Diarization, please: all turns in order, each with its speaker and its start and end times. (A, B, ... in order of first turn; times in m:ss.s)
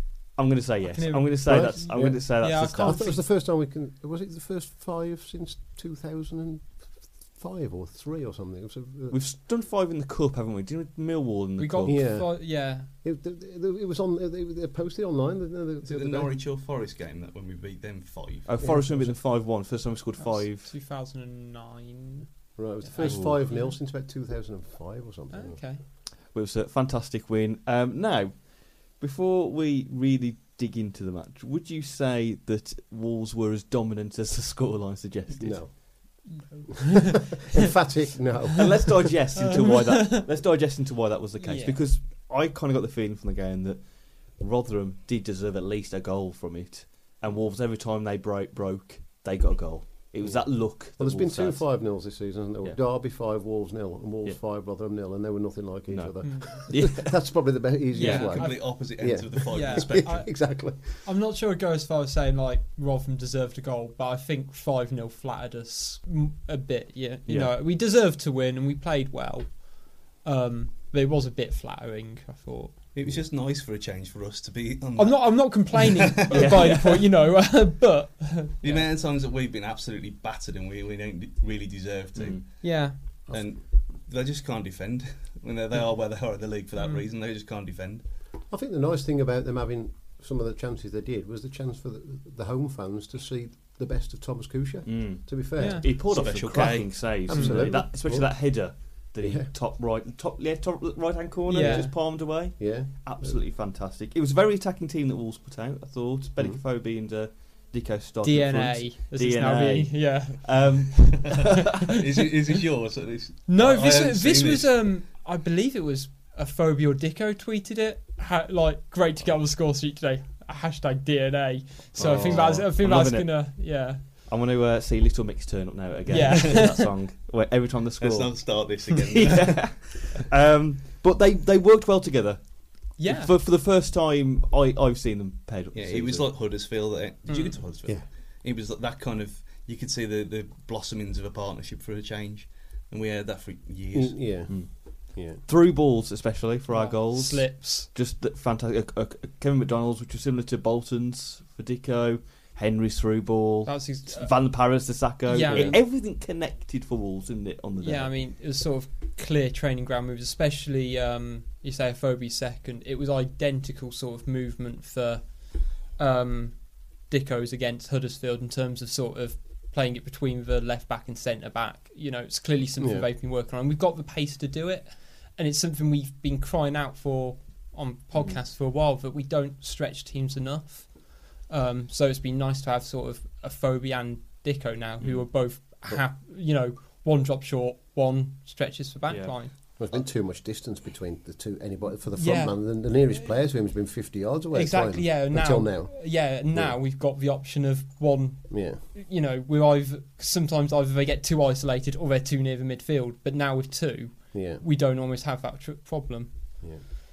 0:00.4-0:03.2 A
0:00.9-0:03.3 B
0:01.4-0:09.2 C
0:09.1-0:12.2 A
0:11.6-0:12.9 B
0:11.9-0:16.4 C
0:15.8-0:18.6 D
0:18.5-0:20.7 A
0:18.6-0:19.2 C
0:19.4-0:23.8 B
0:22.6-0:25.6 C
0:23.0-0:23.5 A
0:25.3-0:25.8 B
0:26.2-0:36.0 A
0:35.4-0:36.5 C
0:36.3-0:37.4 B
0:37.5-0:38.9 C
0:38.6-0:52.8 A
0:39.4-0:40.2 B
0:41.4-0:41.9 B
0:50.2-1:01.1 C
0:55.9-0:58.1 A
0:56.2-0:57.0 B
0:57.9-1:12.8 B
0:58.0-1:00.2 D
1:07.3-1:07.6 A
1:12.9-1:16.8 D
1:15.0-1:18.9 B
1:16.3-1:17.1 A
1:18.6-1:28.1 D
1:22.2-1:22.4 A
1:22.6-1:23.0 B
1:23.3-1:23.6 C
1:26.8-1:27.1 B
1:28.5-1:39.5 C
1:34.8-1:51.6 A
1:35.6-1:36.8 B
1:36.1-1:37.2 D
1:37.3-1:37.9 B
1:41.5-1:41.9 B
1:41.6-1:43.4 C
1:48.2-1:51.4 B
1:51.4-1:54.9 D
1:53.4-2:04.0 B
2:02.0-2:16.4 A
2:02.2-2:02.6 C
2:06.1-2:06.9 B
2:06.2-2:06.7 D
2:08.0-2:10.1 D
2:13.0-2:13.3 B
2:15.7-2:24.5 D
2:17.3-2:17.6 B
2:23.9-2:25.4 C
2:24.5-2:38.2 A
2:26.7-2:27.9 B
2:33.6-2:35.8 B
2:35.5-2:35.8 C
2:37.8-3:09.6 B
2:52.8-2:53.1 C
2:58.2-2:58.4 A
3:05.0-3:05.5 A
3:09.1-3:09.8 A
3:09.8-3:16.8 C
3:12.2-3:13.3 B
3:14.5-3:26.7 B
3:18.5-3:18.8 C
3:24.3-3:24.6 C